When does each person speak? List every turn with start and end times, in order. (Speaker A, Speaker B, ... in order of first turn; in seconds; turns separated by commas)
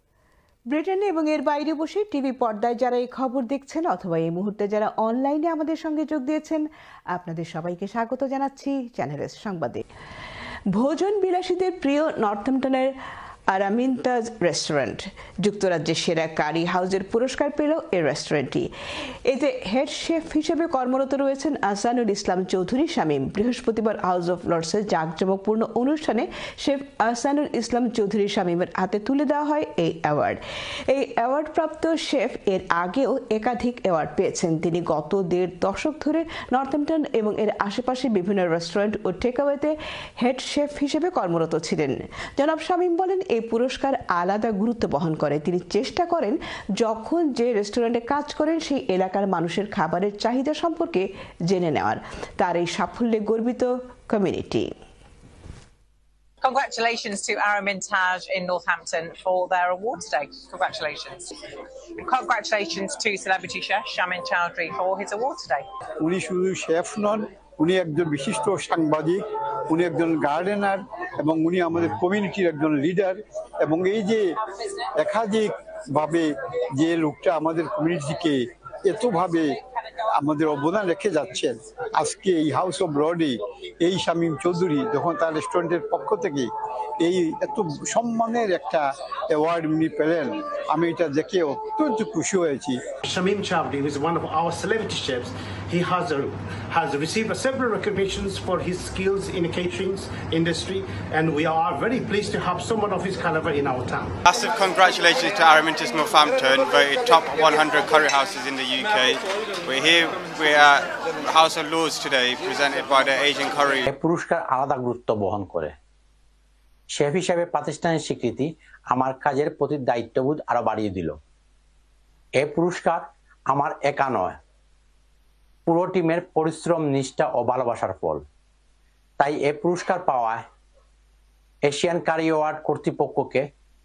Speaker A: 0.7-9.8, Speaker A: 10.7-12.9, Speaker A: 13.5-18.7, Speaker A: 19.3-54.7, Speaker B: 56.4-61.3, Speaker B: 61.9-65.7, Speaker C: 66.0-74.3, Speaker C: 74.9-79.5, Speaker C: 80.1-92.8, Speaker D: 93.0-104.1, Speaker E: 104.2-113.8, Speaker F: 113.9-115.8, Speaker F: 116.9-121.2, Speaker F: 122.4-124.4, Speaker F: 125.7-128.2, Speaker F: 129.2-130.4, Speaker F: 131.7-133.5